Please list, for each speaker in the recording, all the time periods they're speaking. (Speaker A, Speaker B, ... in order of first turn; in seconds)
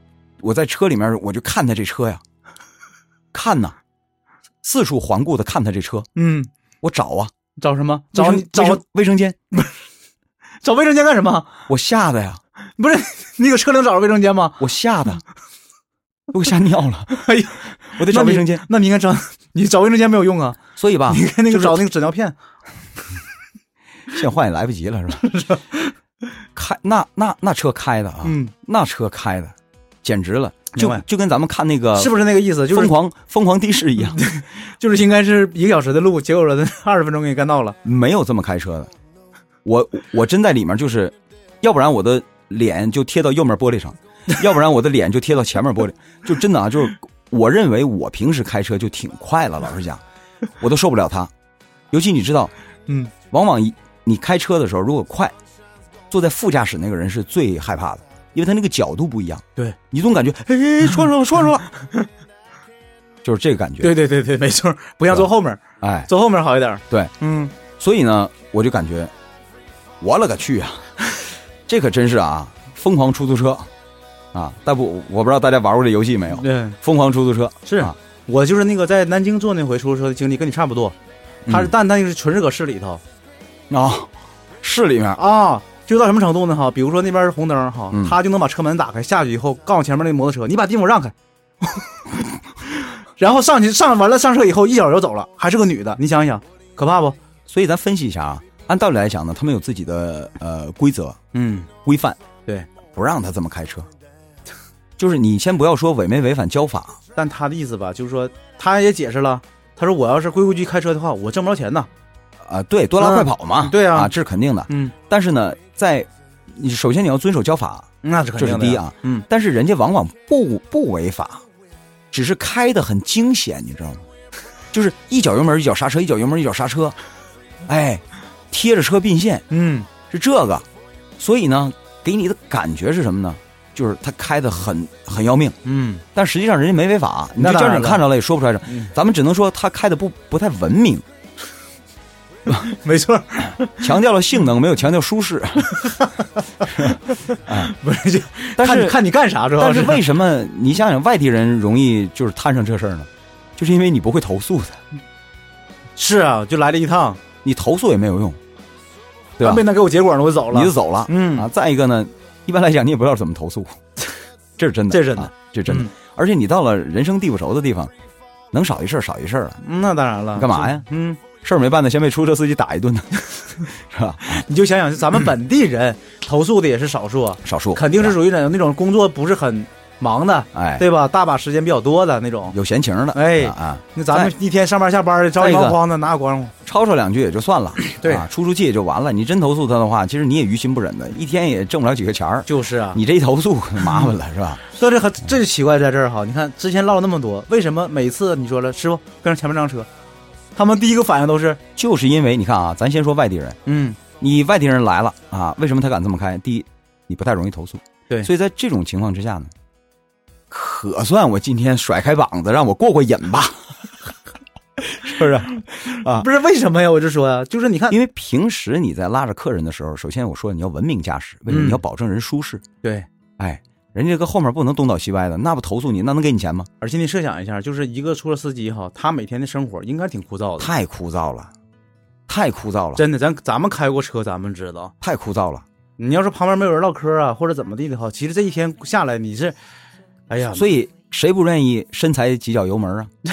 Speaker A: 0.4-2.2, 3.3-3.8, 4.6-6.1, 6.8-7.3, 8.1-9.4, 11.7-12.4, 14.6-15.2, 16.3-17.3, 18.0-18.6, 20.8-21.8, 24.1-25.3, 26.6-34.2, 37.8-38.9, 39.6-50.0, 50.6-51.3, 51.9-52.5, 53.2-55.4, 56.1-61.7, 63.2-64.0, 65.8-66.1, 66.9-69.1, 70.0-70.9, 71.7-73.7, 74.3-78.0, 81.5-81.7, 83.7-84.1, 84.6-85.2, 87.9-88.2, 97.5-101.2, 101.8-102.2, 102.9-103.9, 105.0-107.0, 112.4-121.4, 122.1-124.0, 124.7-127.0, 127.7-129.5, 130.1-130.7, 131.2-135.6, 136.1-141.1, 143.8-145.9, 146.7-147.7, 148.6-149.0, 149.6-154.8, 157.4-158.4, 159.4-159.7, 160.5-163.8, 164.6-167.9, 168.5-169.6, 170.4-174.4, 177.4-178.2, 180.5-180.8, 182.5-184.3, 185.4-185.8, 186.7-194.6, 201.8-203.6, 204.2-209.5, 210.5-213.7, 214.8-216.3, 217.9-222.6, 223.4-226.7, 230.6-231.5, 232.3-233.0, 235.0-235.7, 240.5-243.1
Speaker B: 6.2-6.5, 7.6-8.8, 10.6-11.6, 12.8-14.6, 17.1-22.4, 25.3-25.8, 28.2-28.5, 30.7-31.1, 31.9-32.9, 34.1-37.8, 61.8-62.1, 63.8-67.5, 76.3-76.8, 77.7-81.0, 81.5-83.0, 85.2-91.2, 93.2-97.2, 101.3-101.7, 107.2-111.9, 113.0-114.1, 114.7-114.9, 118.0-119.3, 129.5-129.9, 135.6-136.0, 137.4-138.1, 138.7-138.9, 142.5-143.9, 145.8-146.1, 146.8-150.0, 156.0-157.2, 159.4-161.5, 164.9-165.9, 169.6-171.2, 174.3-182.6, 183.1-186.5, 187.8-188.3, 192.5-193.0, 194.7-199.9, 200.6-201.6, 203.7-204.0, 215.9-218.0, 221.5-221.8, 226.8-230.7, 233.0-234.9, 236.0-239.6, 240.3-240.7